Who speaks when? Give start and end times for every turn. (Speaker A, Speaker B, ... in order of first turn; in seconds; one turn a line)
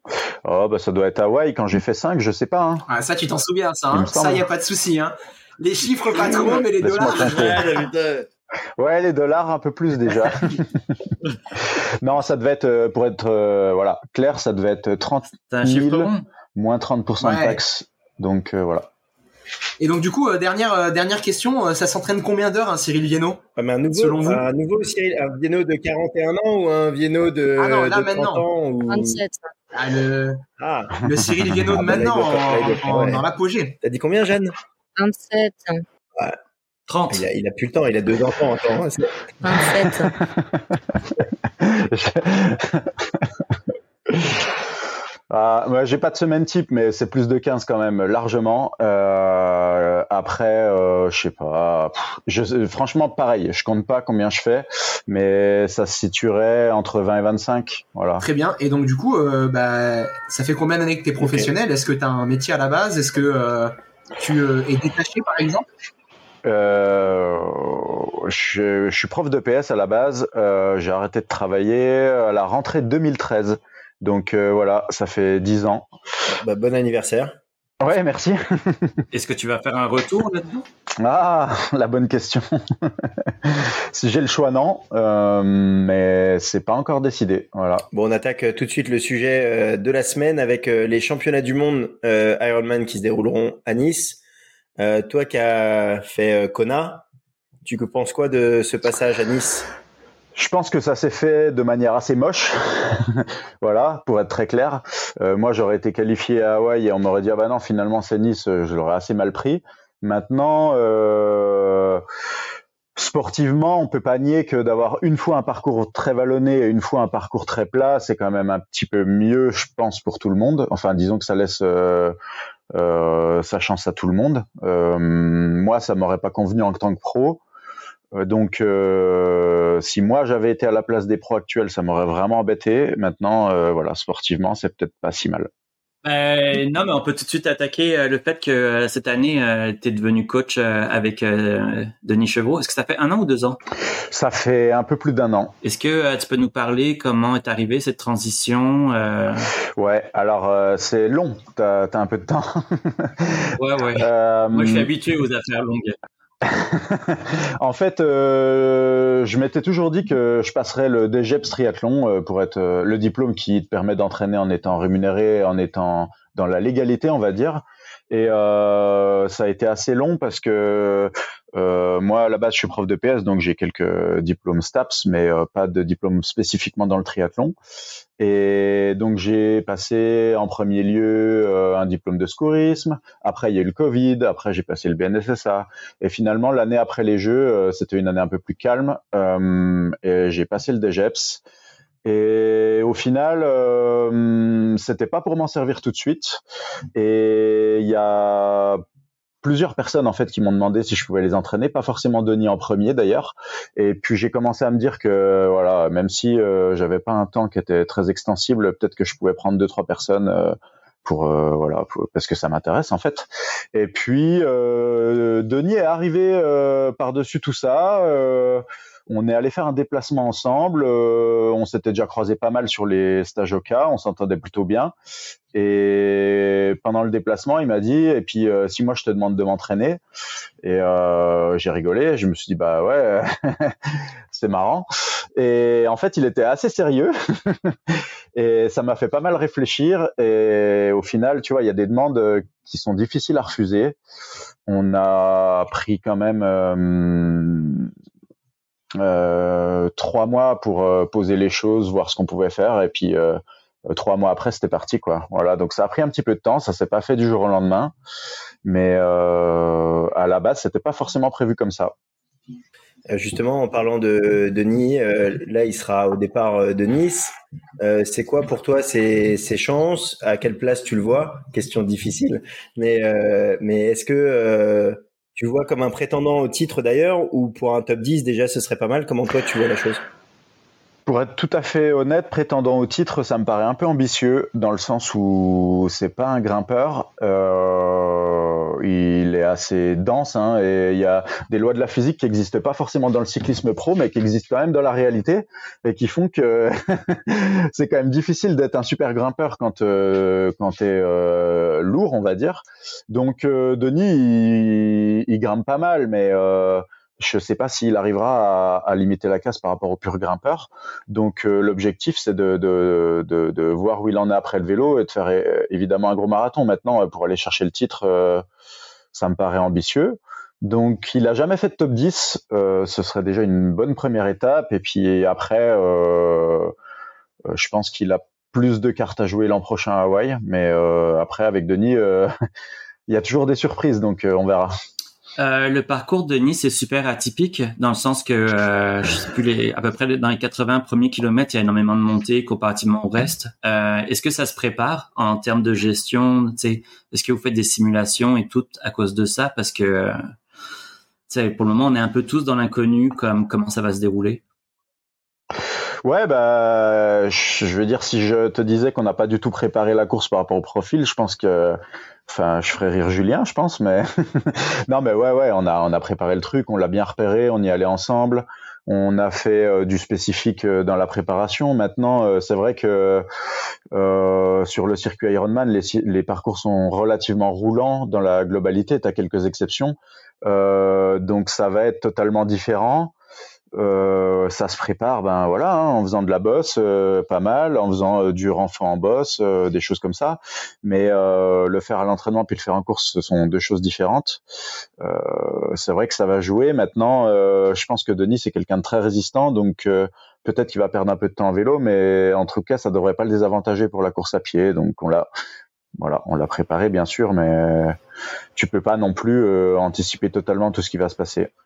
Speaker A: 0.4-2.9
Speaker B: 2.9-7.7
Speaker A: 3.9-4.4
Speaker A: 6.7-7.7
Speaker C: 7.1-8.3
Speaker A: 8.8-10.7
Speaker A: 11.7-18.9
Speaker C: 15.5-16.2
Speaker B: 17.2-17.6
Speaker B: 19.8-24.4
Speaker D: 23.6-29.2
Speaker B: 27.6-28.4
Speaker E: 28.9-29.5
Speaker B: 29.7-30.4
Speaker D: 30.6-31.0
Speaker B: 31.0-33.8
Speaker D: 31.7-33.2
Speaker D: 33.8-34.5
Speaker E: 35.0-35.8
Speaker C: 36.9-37.2
Speaker D: 37.1-39.1
Speaker E: 39.4-40.1
Speaker A: 40.1-40.6
Speaker A: 41.1-43.2
Speaker A: 44.1-44.5
Speaker A: 45.3-58.2
Speaker B: 58.2-65.7
Speaker D: 61.2-61.5
Speaker A: 66.4-75.9
Speaker D: 76.3-77.4
Speaker A: 77.8-79.0
Speaker C: 79.1-80.6
Speaker A: 81.0-87.8
Speaker D: 87.9-94.2
Speaker D: 94.8-97.0
Speaker D: 97.6-99.7
Speaker A: 100.3-112.0
Speaker A: 113.0-122.2
Speaker A: 122.7-127.4
Speaker A: 128.1-135.5
Speaker C: 136.0-143.6
Speaker A: 144.1-145.5
Speaker C: 145.6-149.5
Speaker A: 149.8-154.9
Speaker C: 153.6-156.0
Speaker A: 156.4-177.5
Speaker A: 178.2-191.4
Speaker A: 192.0-196.4
Speaker A: 196.9-198.8
Speaker A: 199.4-224.9
Speaker A: 225.5-230.0
Speaker A: 230.6-244.0
Speaker A: 244.7-247.9
Speaker A: 249.0-257.9
Speaker A: 258.6-261.9
Speaker D: 263.1-280.0
Speaker A: 281.1-318.4
Speaker A: 319.1-326.7
Speaker A: 327.5-332.3
Speaker A: 333.1-334.7
Speaker C: 335.4-350.2
Speaker C: 351.3-354.4
Speaker A: 356.0-373.2
Speaker A: 373.9-383.1
Speaker A: 383.8-394.4
Speaker A: 395.0-405.3
Speaker A: 406.0-407.9
Speaker A: 408.6-411.5